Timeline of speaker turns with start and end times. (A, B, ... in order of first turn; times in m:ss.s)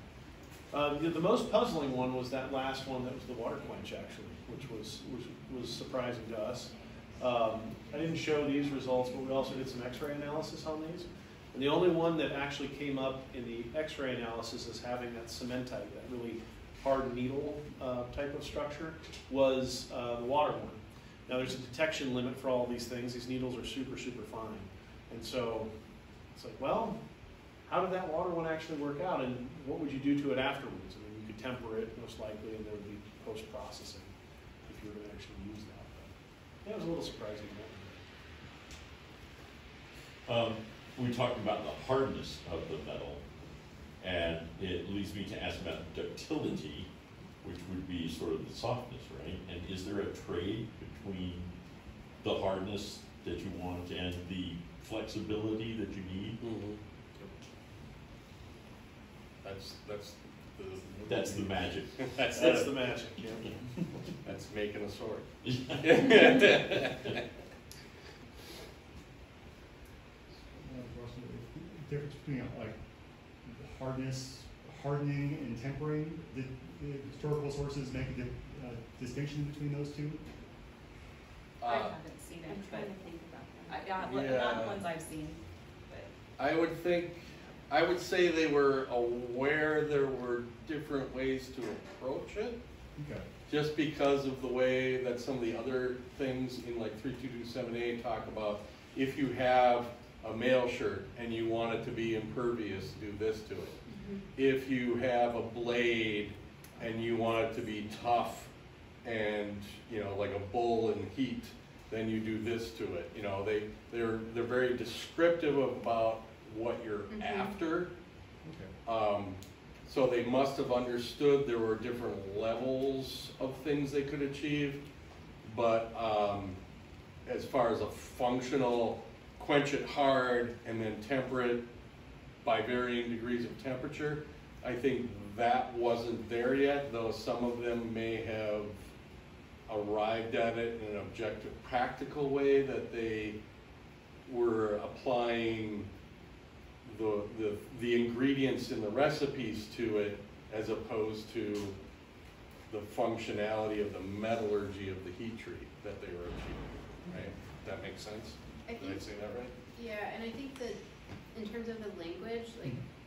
0:00.7-0:25.7 A
0:26.4-0:27.0 A
0:27.6-0:34.1 A
0:34.6-0:36.1 A
0:36.6-0:38.0 A
0:40.3-0:43.2 B
0:44.0-0:46.9 B
0:47.4-0:51.5 B
0:52.2-0:56.4 B
0:56.4-0:56.8 C
0:59.4-1:02.6 C
1:01.0-1:02.7 B
1:02.3-1:03.5 A
1:04.2-1:07.2 C
1:05.4-1:06.2 B
1:10.6-1:12.8 D
1:13.4-1:20.2 D
1:21.6-1:21.9 C
1:21.6-1:22.9 E
1:22.5-1:24.0 F
1:23.7-1:26.1 E
1:24.0-1:24.8 C
1:26.4-1:32.6 C
1:33.0-1:33.3 D
1:33.5-1:43.8 C
1:43.9-1:44.2 F
1:44.3-1:48.5 C
1:49.0-1:57.9 C
1:57.1-1:57.5 F
1:58.4-1:58.7 D
1:58.8-2:04.8 C
2:05.4-2:06.6 C
2:07.2-2:11.6 C
2:12.4-2:18.8 C
2:19.7-2:23.4 C
2:24.2-2:25.9 C
2:26.8-2:31.7 C
2:32.7-2:39.5 C
2:38.7-2:39.0 F
2:39.7-2:40.8 F
2:41.3-2:42.8 F